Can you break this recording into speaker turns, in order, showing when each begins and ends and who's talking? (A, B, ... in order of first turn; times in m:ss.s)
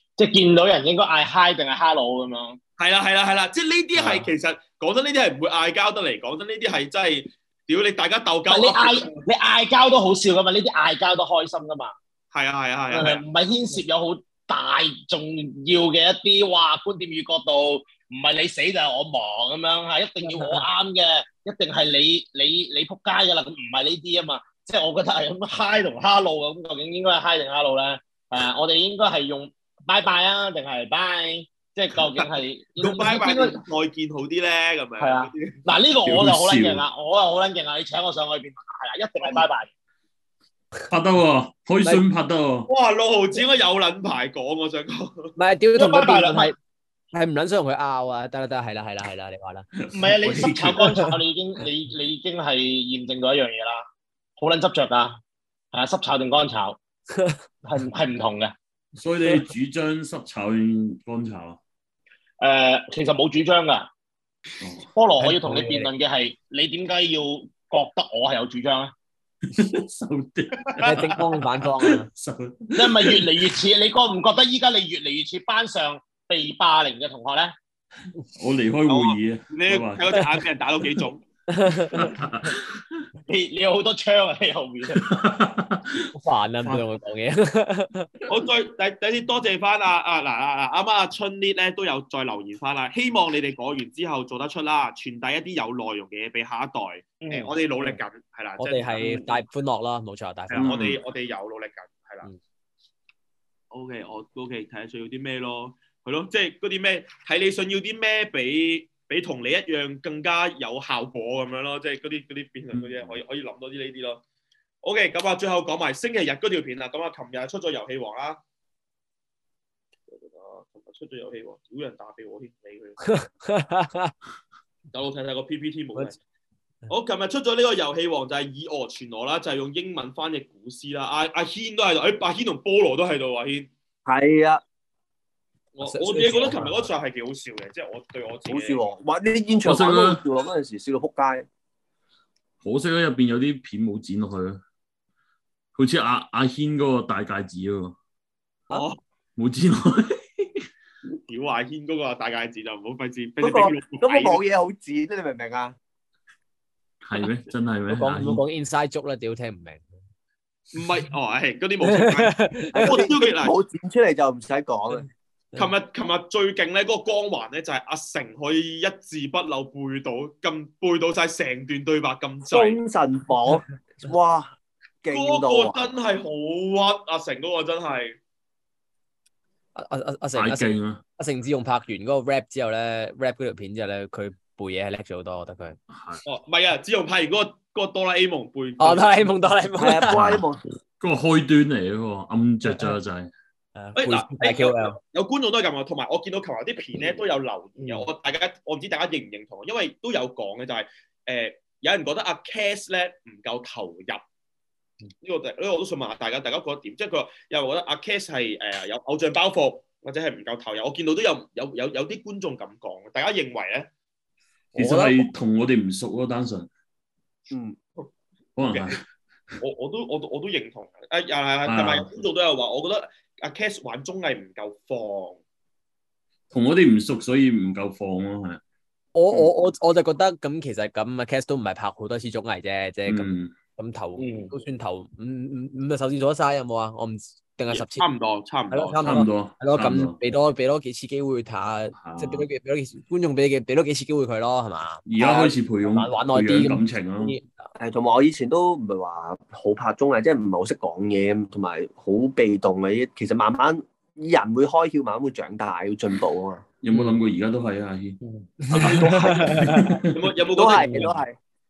0:00.2-0:02.6 A
0:02.8-0:09.1 B
0:04.0-0:04.3 A
0:08.5-0:11.9 A
0:12.3-0:13.2 B
0:12.9-0:33.6 A
0:20.3-0:20.6 C
0:32.1-0:35.6 B
0:35.0-0:39.7 A
0:36.0-0:36.8 D
0:40.9-0:42.7 D
0:42.7-0:45.3 B
0:45.4-0:46.6 C
0:45.7-0:46.5 A
0:47.1-0:49.7 C
0:49.8-0:50.9 D
0:49.9-0:53.8 A
0:54.4-0:55.2 A
0:55.7-0:56.8 A
0:57.1-0:57.4 C
0:57.6-0:58.5 A
0:59.0-1:01.6 D
1:02.4-1:03.9 A
1:04.6-1:04.9 D
1:04.9-1:08.9 A
1:05.2-1:05.9 C
1:09.5-1:13.4 D
1:10.8-1:12.1 C
1:12.8-1:17.5 A
1:18.3-1:20.3 D
1:18.9-1:21.2 B
1:21.5-1:22.1 C
1:21.9-1:23.0 D
1:23.3-1:25.0 A
1:24.9-1:26.1 D
1:26.1-1:28.1 C
1:28.3-1:39.3 B
1:37.2-1:38.0 A
1:38.6-1:40.7 C
1:40.5-1:42.3 B
1:40.6-1:41.0 D
1:43.7-1:54.2 B
1:52.7-1:53.1 D
1:54.8-1:58.4 B
2:00.1-2:03.0 B
2:03.0-2:04.1 C
2:04.9-2:06.2 B
2:06.9-2:13.7 B
2:14.0-2:14.6 E
2:15.7-2:18.8 B
2:15.8-2:16.9 C
2:18.5-2:21.4 E
2:19.6-2:20.2 D
2:22.6-2:24.6 D
2:25.7-2:28.0 D
2:28.7-2:29.0 B
2:29.4-2:30.5 D
2:31.3-2:34.4 B
2:33.4-2:35.8 E
2:37.0-2:38.4 D
2:37.9-2:39.8 C
2:40.7-2:43.5 B
2:41.9-2:43.0 C
2:42.7-2:45.0 E
2:45.6-2:52.8 B
2:52.4-2:54.5 E
2:55.0-2:55.9 E
2:55.1-2:58.2 B
2:59.7-3:05.8 C
3:00.3-3:01.0 D
3:05.9-3:06.2 D
3:06.2-3:09.3 B
3:08.8-3:10.4 C
3:09.8-3:10.6 E
3:11.0-3:13.3 D
3:13.8-3:15.0 C
3:14.0-3:24.2 B
3:17.8-3:18.1 A
3:25.2-3:33.9 B
3:34.7-3:35.3 C
3:34.7-3:36.7 D
3:37.5-3:37.8 E
3:38.6-3:39.0 D
3:38.6-3:39.0 B
3:39.6-3:45.4 B
3:41.7-3:42.1 D
3:46.5-3:48.6 D
3:49.1-3:58.1 C
3:53.0-3:53.5 D
3:54.2-3:54.5 A
3:57.7-3:59.0 B
3:58.7-4:07.7 C
3:59.0-4:00.2 D
4:01.9-4:02.4 D
4:05.0-4:07.4 D
4:07.8-4:16.6 E
4:16.8-4:18.2 D
4:16.9-4:17.2 C
4:18.2-4:18.5 A
4:18.6-4:19.9 C
4:18.7-4:20.1 D
4:18.7-4:19.6 E
4:20.1-4:20.9 B
4:20.5-4:21.3 E
4:20.8-4:21.1 A